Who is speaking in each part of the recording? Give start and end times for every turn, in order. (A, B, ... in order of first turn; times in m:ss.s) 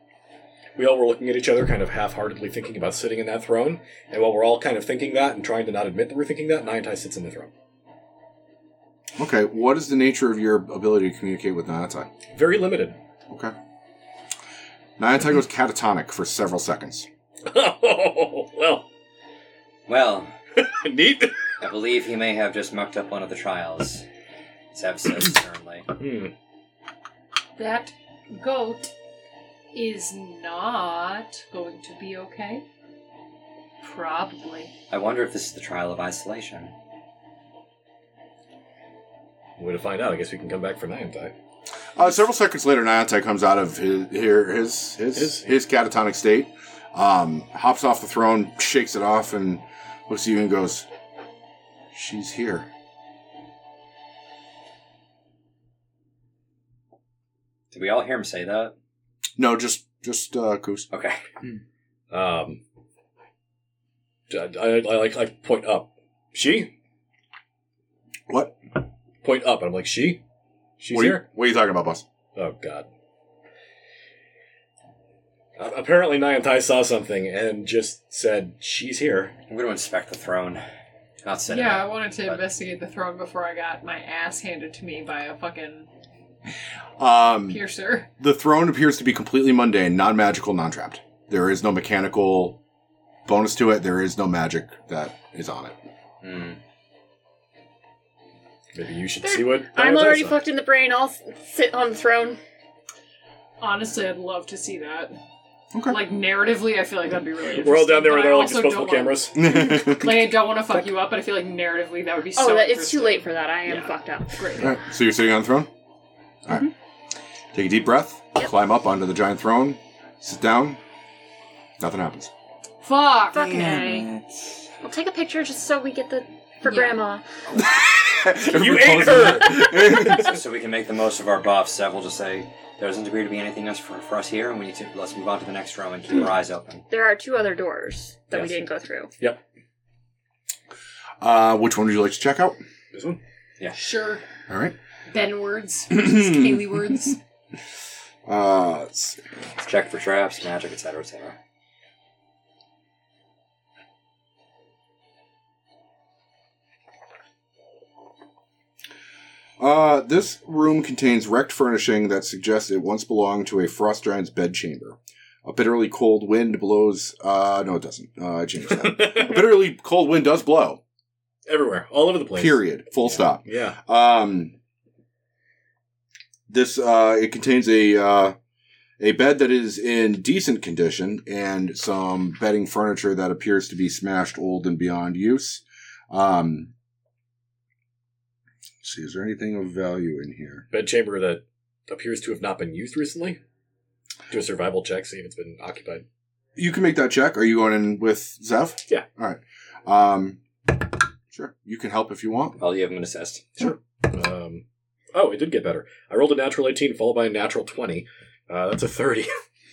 0:00.8-0:07.5 A
0:09.2-0:12.1 B
0:12.3-0:13.0 A
0:15.0-0:17.1 B
0:17.4-0:18.8 A
0:19.9-0:20.3 C
0:20.5-0:21.4 A
0:21.6-0:24.0 C
0:24.7-0:25.9 C
0:26.0-0:26.3 A
0:27.6-0:28.9 D
0:29.7-0:32.6 D
0:33.8-0:34.7 D
0:34.9-0:36.7 C
0:39.6-0:41.3 A
0:42.0-0:50.9 B
0:45.1-0:45.5 A
0:51.9-0:52.7 B
0:57.7-0:58.7 C
0:59.4-1:00.9 B
1:00.9-1:01.2 C
1:02.1-1:02.6 A
1:04.3-1:06.7 A
1:08.3-1:08.6 B
1:09.2-1:10.2 A
1:10.8-1:11.2 A
1:10.9-1:12.0 B
1:12.3-1:12.9 A
1:15.6-1:19.4 A
1:19.5-1:20.6 C
1:21.2-1:22.5 C
1:21.5-1:25.9 D
1:27.0-1:27.6 B
1:27.5-1:28.1 D
1:28.2-1:32.6 B
1:33.2-1:35.8 B
1:36.2-1:36.6 C
1:38.7-1:40.4 A
1:39.3-1:42.4 E
1:43.6-1:45.2 D
1:45.9-1:54.8 D
1:47.5-1:49.4 A
1:49.3-1:50.3 B
1:52.3-1:54.6 E
1:54.6-1:55.7 B
1:57.5-2:00.8 B
2:01.8-2:02.3 B
2:02.8-2:03.8 D
2:03.3-2:04.1 E
2:04.8-2:07.2 E
2:07.5-2:10.3 B
2:08.4-2:10.1 A
2:10.0-2:16.8 C
2:16.9-2:19.1 E
2:18.3-2:18.6 C
2:21.2-2:22.6 B
2:22.9-2:23.2 A
2:23.7-2:24.2 D
2:24.5-2:24.7 B
2:25.1-2:27.2 D
2:25.9-2:26.4 B
2:28.2-2:29.2 B
2:29.6-2:31.4 C
2:39.6-2:50.8 B
2:48.7-2:49.5 A
2:51.5-2:53.8 A
2:52.3-2:54.6 B
2:56.5-2:58.3 B
2:59.0-3:06.7 B
3:08.8-3:10.7 B
3:10.7-3:13.4 A
3:14.3-3:16.0 A
3:16.6-3:20.4 B
3:21.3-3:22.6 B
3:22.6-3:23.5 C
3:23.6-3:29.4 A